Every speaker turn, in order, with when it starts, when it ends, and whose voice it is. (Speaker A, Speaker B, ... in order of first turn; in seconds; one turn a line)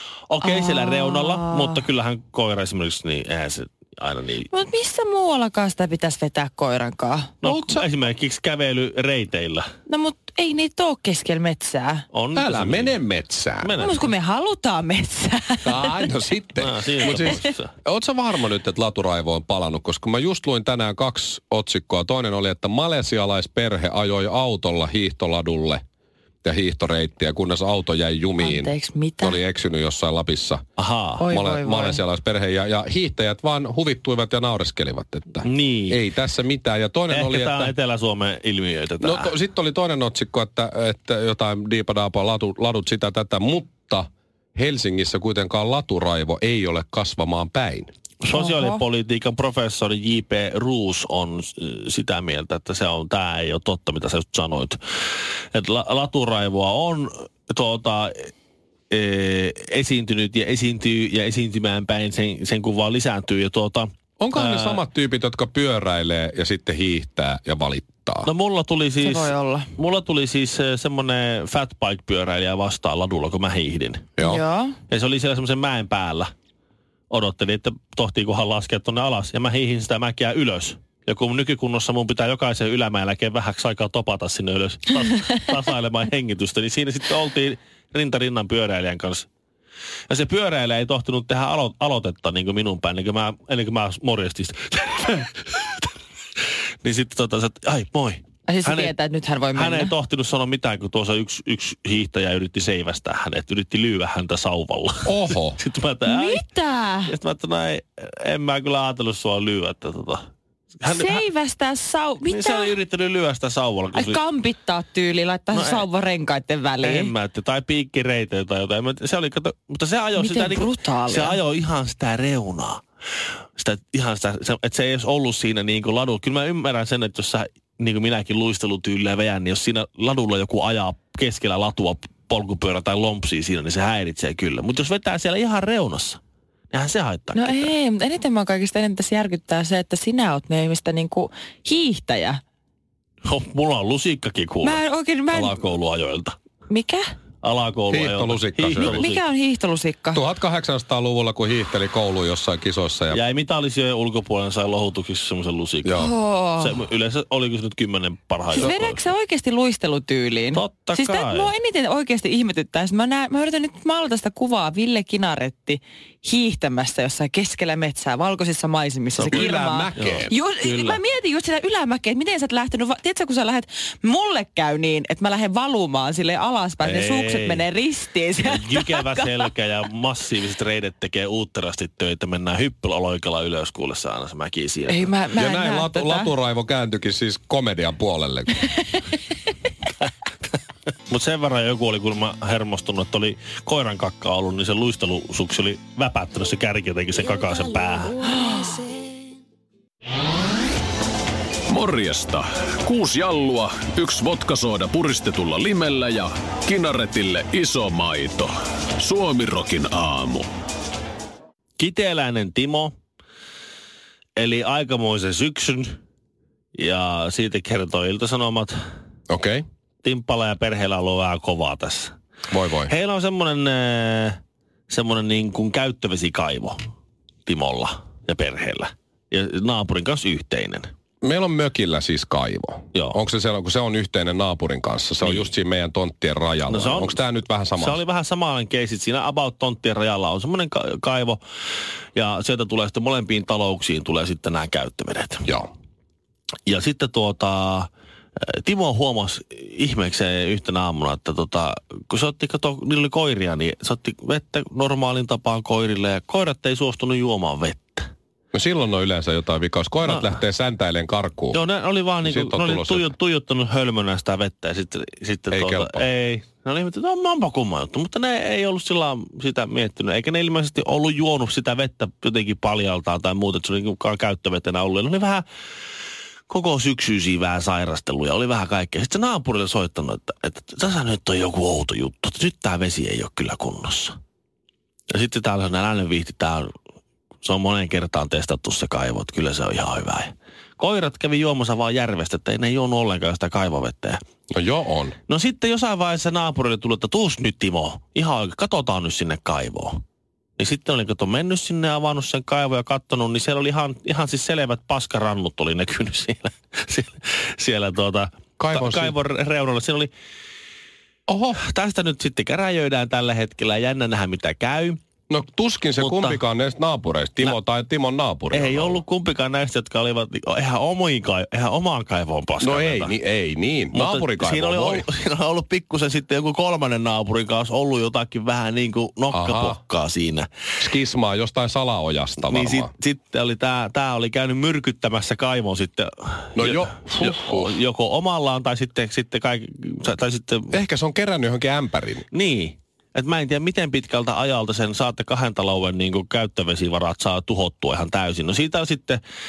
Speaker A: 0.3-4.5
Speaker B: 0.4-1.8
Speaker B: 4.5-7.4
Speaker A: 7.4-9.7
Speaker C: 7.5-7.8
Speaker B: 9.9-12.1
Speaker A: 12.1-13.0
Speaker C: 12.3-13.7
Speaker A: 13.6-14.1
Speaker B: 13.7-16.2
Speaker C: 15.7-25.8
Speaker A: 16.6-17.7
Speaker B: 17.2-17.5
Speaker C: 26.4-30.6
Speaker B: 28.4-29.4
Speaker A: 30.8-31.2
Speaker B: 31.2-32.0
Speaker C: 31.2-37.7
Speaker A: 35.5-36.0
Speaker A: 37.1-39.3
Speaker C: 39.0-47.9
Speaker A: 48.2-54.8
Speaker B: 48.3-48.8
Speaker A: 55.5-58.3
Speaker A: 58.9-64.8
Speaker C: 64.2-68.3
Speaker A: 68.2-74.1
Speaker B: 69.0-69.7
Speaker B: 74.2-74.8
Speaker A: 74.9-76.3
Speaker A: 77.1-89.3
Speaker A: 90.1-95.9
Speaker A: 96.8-99.0
Speaker B: 98.5-99.9
Speaker A: 99.5-106.4
Speaker C: 105.0-105.6
Speaker B: 106.0-107.1
Speaker A: 107.1-110.2
Speaker A: 110.8-111.2
Speaker B: 110.9-112.7
Speaker A: 112.2-114.2
Speaker B: 113.9-117.1
Speaker A: 115.5-115.9
Speaker A: 116.8-122.8
Speaker B: 120.2-121.4
Speaker A: 123.6-136.2
Speaker A: 136.7-137.7
Speaker B: 137.3-142.4
Speaker A: 143.2-144.8
Speaker B: 144.6-145.7
Speaker A: 145.3-146.3
Speaker B: 146.7-147.1
Speaker A: 147.4-149.2
Speaker C: 147.9-149.1
Speaker B: 148.8-150.2
Speaker C: 150.1-153.2
Speaker A: 153.1-159.0
Speaker C: 155.8-156.1
Speaker B: 156.0-156.7
Speaker B: 158.5-179.4
Speaker A: 160.5-161.5
Speaker C: 169.2-170.3
Speaker A: 169.3-171.0
Speaker A: 176.8-177.7
Speaker A: 178.4-185.1
Speaker B: 184.9-186.3
Speaker C: 185.4-188.6
Speaker A: 191.1-198.2
Speaker D: 201.7-210.5
Speaker A: 211.8-212.9
Speaker A: 214.4-216.0
Speaker A: 216.8-218.7
Speaker C: 219.3-219.7
Speaker A: 220.0-222.1
Speaker C: 222.5-222.9
Speaker A: 222.9-224.4
Speaker A: 224.9-226.8
Speaker A: 227.5-230.9
Speaker C: 231.2-238.0
Speaker A: 235.2-235.5
Speaker A: 236.7-237.2
Speaker A: 237.8-241.4
Speaker A: 242.2-245.5
Speaker A: 246.7-247.9
Speaker A: 248.4-258.1
Speaker C: 258.5-261.6
Speaker A: 260.1-260.4
Speaker A: 261.5-275.4
Speaker C: 262.2-263.1
Speaker C: 265.5-266.0
Speaker A: 276.5-284.2
Speaker A: 285.1-286.7
Speaker A: 287.4-294.2
Speaker C: 294.5-295.2
Speaker A: 295.3-300.0
Speaker A: 300.6-310.1
Speaker C: 308.6-309.1
Speaker C: 311.3-311.6
Speaker A: 311.6-315.0
Speaker C: 315.3-319.0
Speaker A: 316.0-316.4
Speaker A: 318.5-323.1
Speaker C: 322.6-325.1
Speaker A: 323.9-330.5
Speaker C: 329.3-329.8
Speaker C: 330.8-332.9
Speaker A: 332.5-340.7
Speaker C: 336.6-337.7
Speaker C: 340.7-342.2
Speaker A: 342.3-349.2